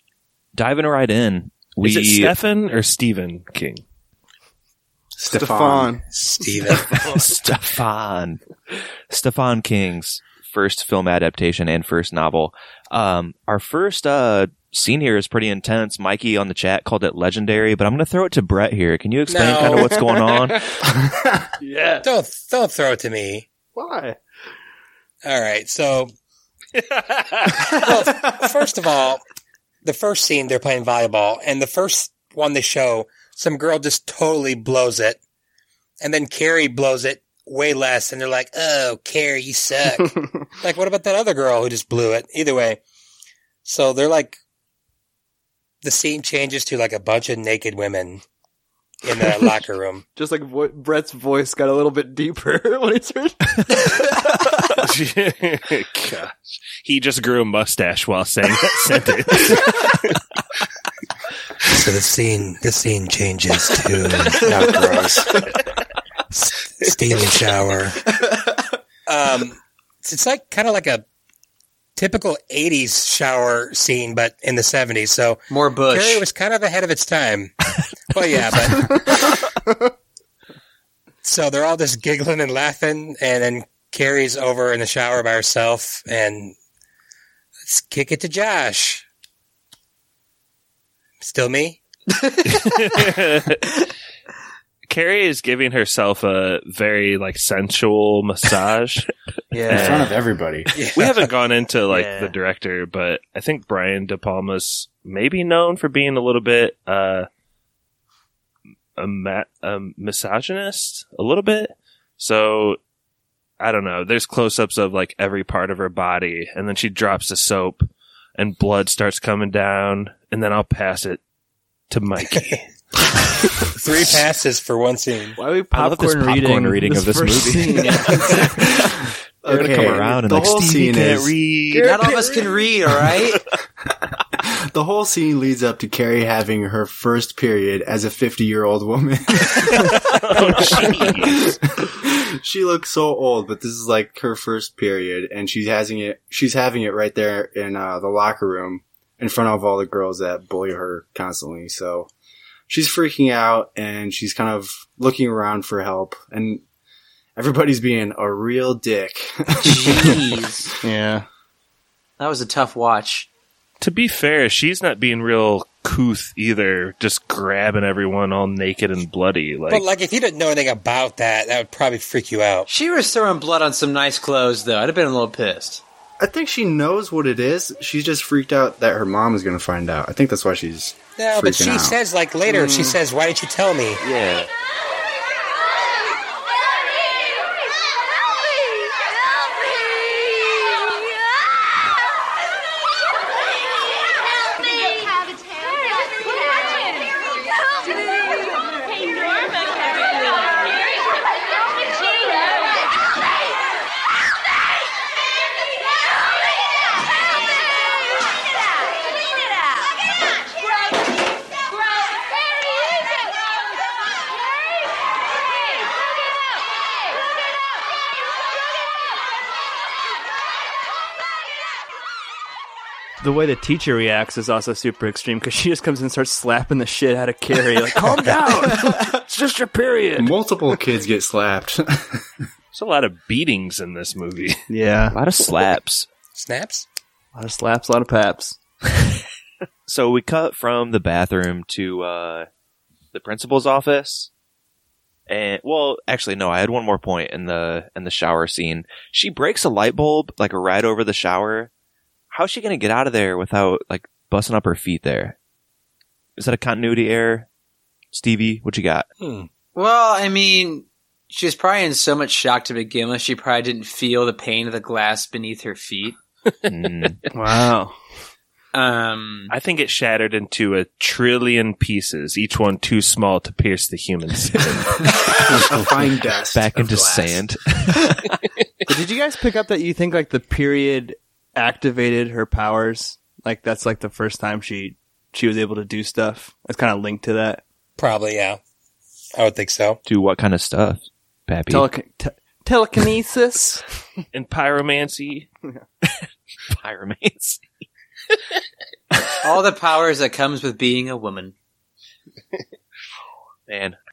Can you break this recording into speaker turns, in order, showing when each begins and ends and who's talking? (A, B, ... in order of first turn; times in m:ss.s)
0:00.6-0:02.3 A
0:01.8-0:03.8 B
0:05.2-0:06.0 C
0:05.3-0:06.0 D
0:06.1-0:06.9 E
0:06.7-0:08.4 A
0:09.1-0:20.7 A
0:19.3-0:19.9 E
0:19.6-0:20.6 D
0:21.6-0:22.1 D
0:22.0-0:23.5 E
0:23.7-0:24.2 D
0:25.2-0:26.1 E
0:27.0-0:27.5 B
0:27.6-0:29.2 E
0:29.8-0:35.2 E
0:36.0-0:42.8 E
0:43.6-0:44.4 E
0:45.8-0:48.2 E
0:49.0-0:50.0 E
0:50.2-0:54.5 D
0:54.8-1:00.1 B
1:01.6-1:05.5 E
1:06.4-1:08.0 E
1:09.1-1:11.0 E
1:12.0-1:17.6 E
1:15.5-1:16.3 F
1:18.1-1:19.4 E
1:21.2-1:26.6 E
1:27.6-1:29.0 E
1:31.2-1:31.8 E
1:32.4-1:33.8 B
1:34.9-1:39.1 B
1:39.5-1:40.2 D
1:39.7-1:40.2 B
1:39.7-1:40.7 C
1:40.8-1:41.3 E
1:41.0-1:47.3 B
1:41.9-1:42.3 D
1:49.0-1:52.8 B
1:53.6-2:01.2 B
2:01.9-2:02.7 B
2:03.8-2:05.4 E
2:05.4-2:08.8 D
2:05.7-2:08.9 A
2:08.4-2:11.4 C
2:09.5-2:12.0 A
2:11.8-2:13.4 F
2:14.4-2:32.1 C
2:19.9-2:21.6 B
2:32.7-2:36.6 C
2:37.4-2:40.4 C
2:39.6-2:40.7 F
2:39.8-2:40.1 D
2:40.8-2:41.2 D
2:42.2-2:43.3 F
2:43.8-2:49.9 B
2:49.7-2:52.7 E
2:52.7-2:55.8 F
2:56.2-3:02.0 C
3:01.2-3:04.0 E
3:02.5-3:03.0 D
3:04.0-3:04.5 A
3:43.2-3:50.3 D
3:50.2-3:52.4 C
3:52.7-3:54.6 B
3:54.7-3:55.2 D
3:55.1-3:56.1 A
3:56.3-3:56.9 E
3:57.4-3:59.0 D
3:59.9-4:02.5 A
4:03.1-4:04.3 A
4:05.3-4:11.7 A
4:12.3-4:15.4 A
4:16.4-4:17.5 A
4:18.1-4:19.1 A
4:19.2-4:19.5 E
4:19.8-4:26.2 F
4:26.7-4:27.2 A
4:27.3-4:28.0 D
4:28.7-4:29.5 F
4:29.5-4:35.0 B
4:35.2-4:37.4 C
4:36.5-4:38.2 A
4:38.9-4:47.6 D
4:48.0-4:48.6 E
4:49.4-4:50.0 E
4:50.0-4:51.9 A
4:51.7-4:53.8 D
4:54.3-4:55.5 B
4:56.2-4:57.6 A
4:59.4-5:01.5 F
5:03.7-5:04.0 A